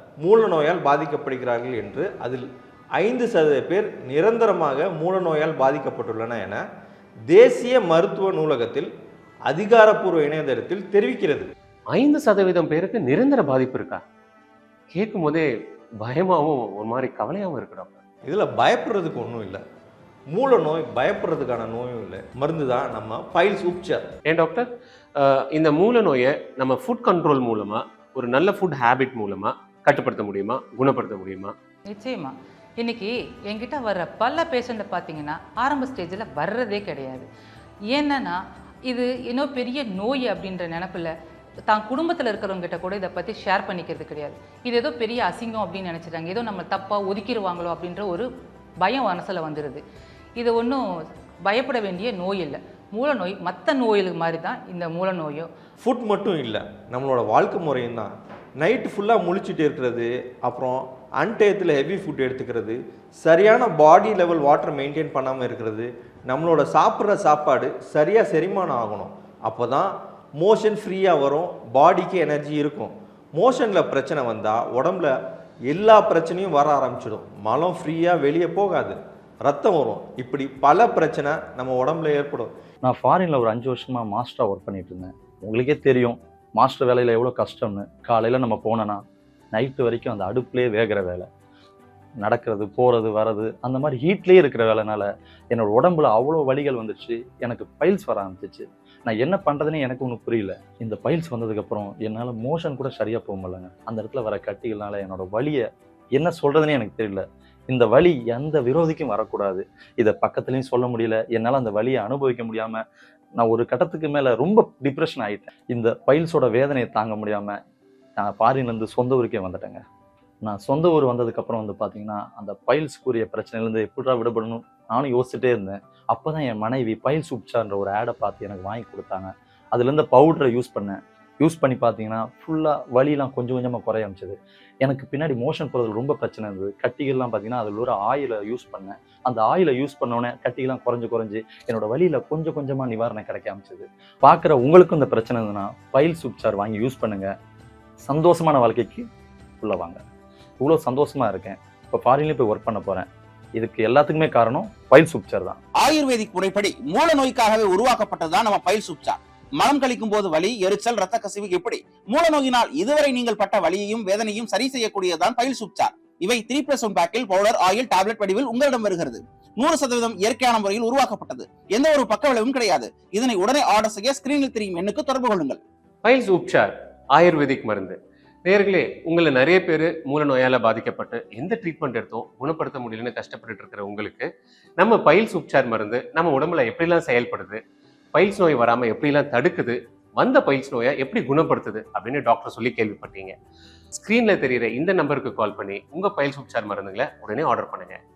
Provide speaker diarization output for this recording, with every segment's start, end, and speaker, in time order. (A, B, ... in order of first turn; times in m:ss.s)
0:00.2-0:02.4 A
0:03.0-0:06.6 A
0:07.3-0:08.9 A
0:09.5-0:11.5 A
0:11.9-0:14.0 B
0:14.9-0:15.5 B
0:16.0-0:18.0 B
0:18.3-0:19.6 A
0:20.3-0:24.1 A
0:24.3-0:24.7 B
0:25.2-0:31.5 B
0:31.9-0:37.3 C
0:37.9-0:41.1 C
0:41.7-0:48.3 C
0:48.8-0:49.8 C
0:50.4-0:50.8 C
0:51.5-0:55.5 C
0:55.8-1:15.1 A
1:15.7-1:22.5 A
1:22.8-1:29.0 D
1:29.5-1:31.3 D
1:32.2-1:45.6 D
1:46.2-1:52.8 D
1:53.4-1:57.6 D
1:58.2-1:59.8 D
2:00.4-2:27.3 D
2:28.0-2:29.1 D
2:29.6-2:30.0 D
2:30.6-2:35.6 D
2:35.8-2:55.6 E
2:56.0-3:04.3 B
3:04.8-3:07.6 B
3:08.2-3:13.4 B
3:14.0-3:18.0 B